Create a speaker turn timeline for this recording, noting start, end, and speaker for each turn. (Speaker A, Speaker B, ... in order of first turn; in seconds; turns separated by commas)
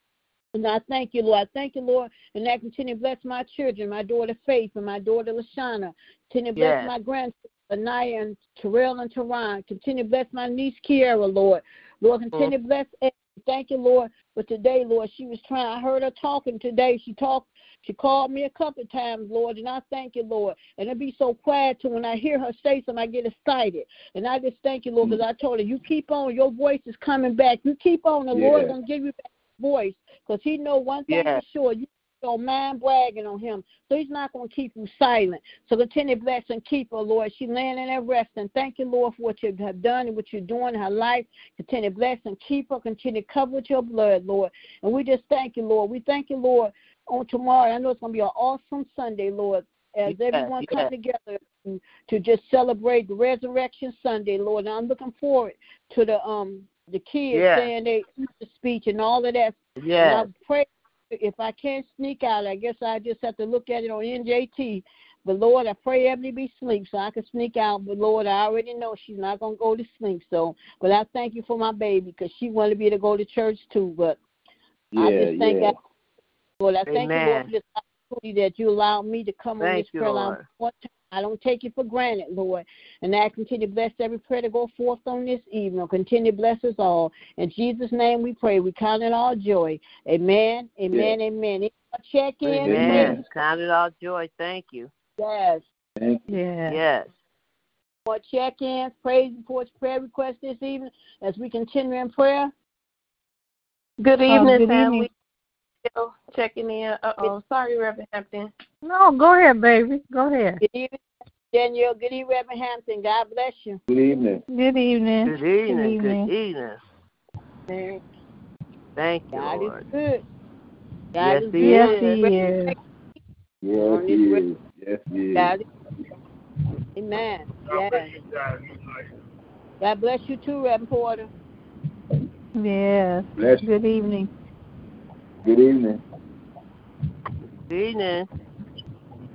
Speaker A: 0.5-74.2, Speaker B: 6.6-6.9, Speaker C: 28.3-28.7, Speaker B: 31.1-31.4, Speaker B: 50.1-50.9, Speaker B: 57.3-57.7, Speaker B: 59.8-60.3, Speaker C: 74.9-75.7, Speaker A: 75.0-75.7, Speaker A: 76.6-93.2, Speaker B: 76.9-77.5, Speaker B: 79.6-80.4, Speaker C: 90.9-91.2, Speaker B: 92.4-94.9, Speaker C: 92.6-93.2, Speaker A: 95.2-95.6, Speaker C: 96.0-96.3, Speaker D: 96.3-96.8, Speaker B: 96.7-97.1, Speaker A: 98.1-102.5, Speaker E: 104.0-105.1, Speaker D: 104.3-105.1, Speaker E: 105.9-108.5, Speaker D: 108.8-110.6, Speaker A: 110.6-113.8, Speaker C: 113.9-114.4, Speaker D: 114.5-116.3, Speaker B: 115.2-116.8, Speaker B: 117.7-118.0, Speaker B: 119.0-119.9, Speaker A: 119.3-120.2, Speaker A: 121.1-122.8, Speaker B: 121.2-122.2, Speaker D: 121.6-122.8, Speaker C: 123.6-125.5, Speaker A: 123.8-124.4, Speaker A: 125.3-125.6, Speaker A: 127.0-128.1, Speaker A: 129.8-131.3, Speaker D: 132.6-134.3, Speaker C: 133.4-133.6, Speaker C: 135.4-136.0, Speaker B: 137.7-138.3